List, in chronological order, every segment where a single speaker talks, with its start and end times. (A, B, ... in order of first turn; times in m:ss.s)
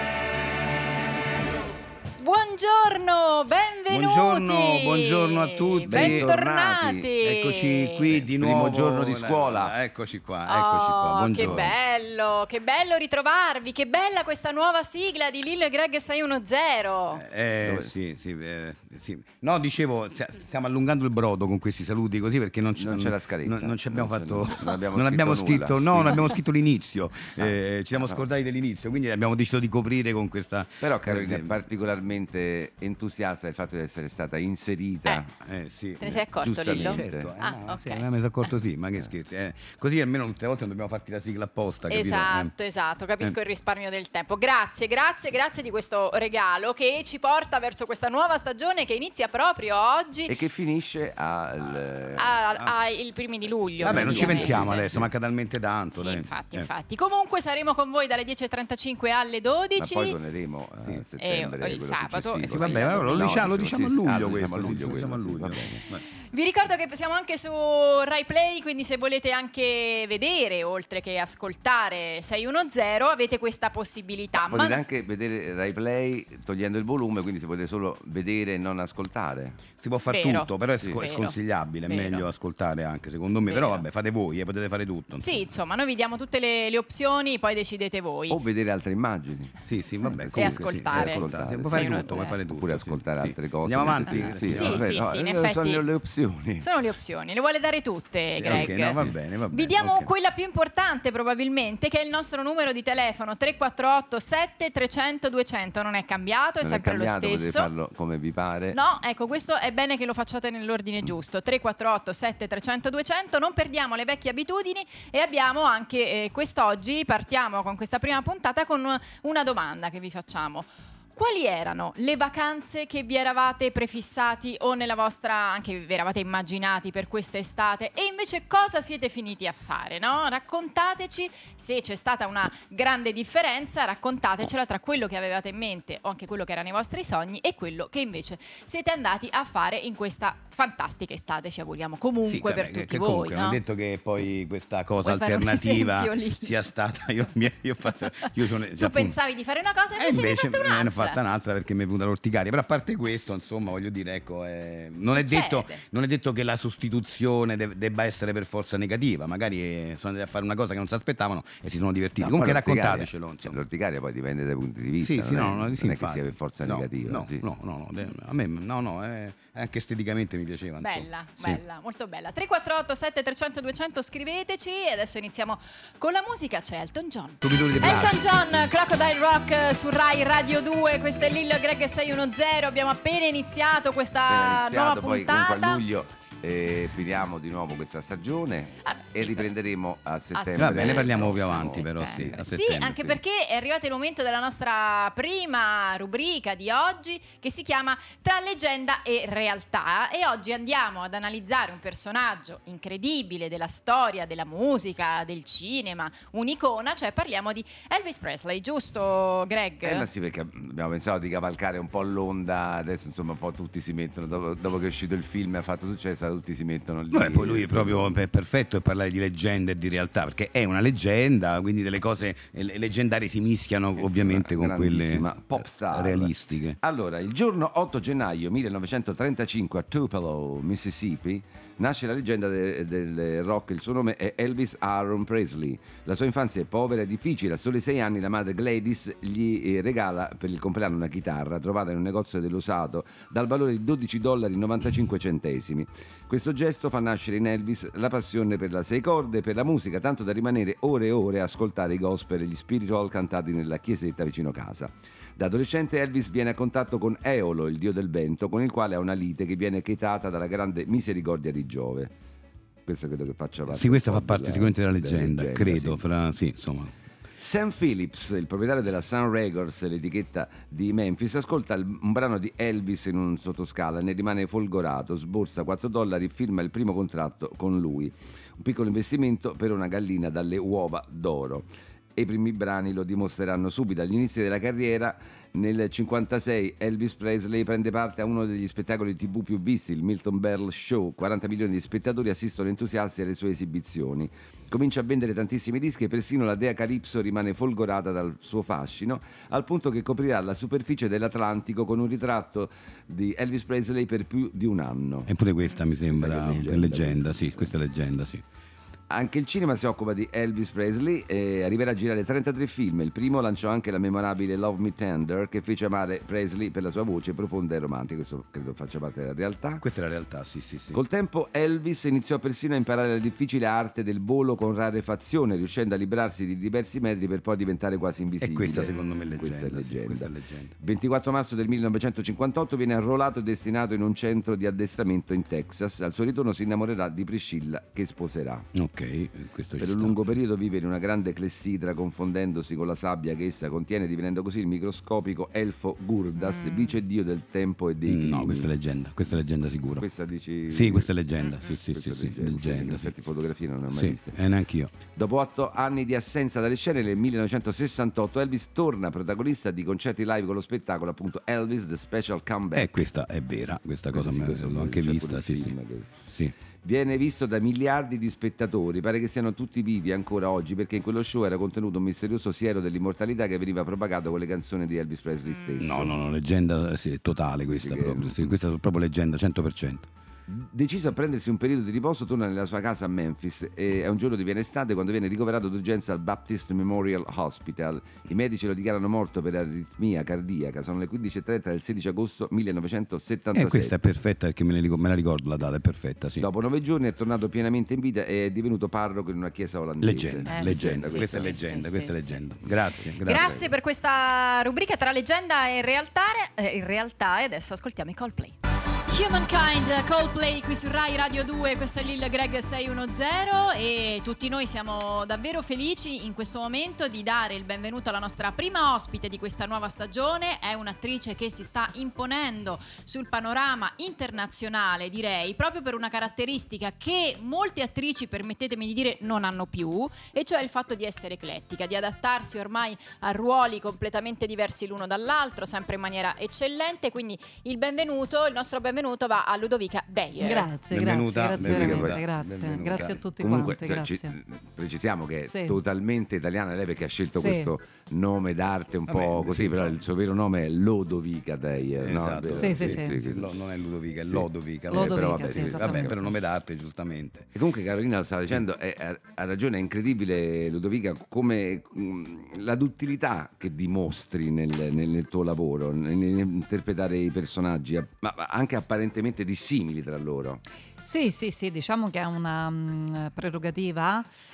0:02.2-0:08.1 A
0:03.9-0:06.3 B
0:05.9-0:07.1 C
0:07.2-0:11.7 B
0:08.2-0:09.7 C
0:10.4-0:17.2 A
0:11.4-0:11.6 C
0:17.1-0:31.6 B
0:17.6-0:17.9 C
0:22.8-0:26.2 C
0:27.4-0:28.2 C
0:30.8-0:35.3 C
0:35.4-0:42.5 B
0:36.0-0:38.0 A
0:36.4-0:37.3 C
0:41.9-0:50.3 A
0:50.3-0:52.4 C
0:52.2-0:54.9 A
0:53.8-0:55.0 C
0:53.8-0:56.7 B
0:55.9-1:00.2 A
0:59.8-1:05.8 C
1:01.2-1:03.5 A
1:02.5-1:06.0 B
1:06.3-1:14.8 A
1:14.3-1:19.6 C
1:19.8-1:25.2 B
1:20.1-1:22.3 A
1:23.5-1:23.8 A
1:25.2-1:28.4 A
1:28.3-1:29.5 C
1:29.6-1:34.9 B
1:30.1-1:36.7 C
1:30.3-1:32.4 A
1:33.9-1:35.8 A
1:36.6-1:47.7 A
1:38.3-1:40.1 B
1:38.4-1:39.1 C
1:46.6-1:48.8 C
1:48.7-2:23.6 A
2:22.2-2:29.2 B
2:25.0-2:26.5 A
2:28.7-2:31.2 A
2:30.0-2:43.6 B
2:35.1-2:35.8 A
2:42.2-2:47.4 C
2:45.0-2:51.6 B
2:50.8-3:05.8 A
2:57.4-2:58.2 B
3:04.3-3:13.2 C
3:08.9-3:09.5 A
3:10.3-3:30.1 A
3:10.6-3:13.0 B
3:29.8-3:38.1 C
3:37.1-3:46.8 B
3:44.0-4:22.1 C
4:22.8-4:26.0 C
4:23.7-4:26.9 B
4:27.4-5:05.3 C
5:05.2-5:08.4 B
5:06.1-5:07.7 C
5:09.1-5:19.8 C
5:19.8-5:21.0 B
5:20.9-5:38.7 C
5:28.4-5:30.7 B
5:38.7-5:40.2 B
5:39.8-5:48.7 C
5:46.4-5:47.0 A
5:48.0-5:50.1 B
5:49.9-5:51.1 C
5:50.7-5:53.1 B
5:51.4-5:51.7 A
5:51.6-5:54.4 C
5:53.9-5:54.9 B
5:55.1-6:02.9 C
6:02.7-6:05.7 B
6:04.1-6:06.2 C
6:06.3-6:06.5 B
6:06.8-6:16.1 C
6:15.8-6:20.1 B
6:17.7-6:18.5 C
6:20.5-6:33.9 C
6:33.5-6:36.5 B
6:36.4-6:41.6 C
6:40.0-6:43.5 B
6:40.5-6:42.4 A
6:43.2-7:20.7 A
6:43.3-6:43.6 C
7:20.4-7:24.3 D
7:20.9-7:23.2 B
7:21.6-7:22.2 C
7:23.0-7:33.6 C
7:25.4-7:25.8 D
7:27.3-7:27.7 D
7:29.1-7:29.9 B
7:32.0-7:37.5 B
7:32.6-7:33.2 D
7:34.2-7:36.2 C
7:34.9-7:36.1 D
7:37.5-7:50.6 C
7:51.0-7:54.3 D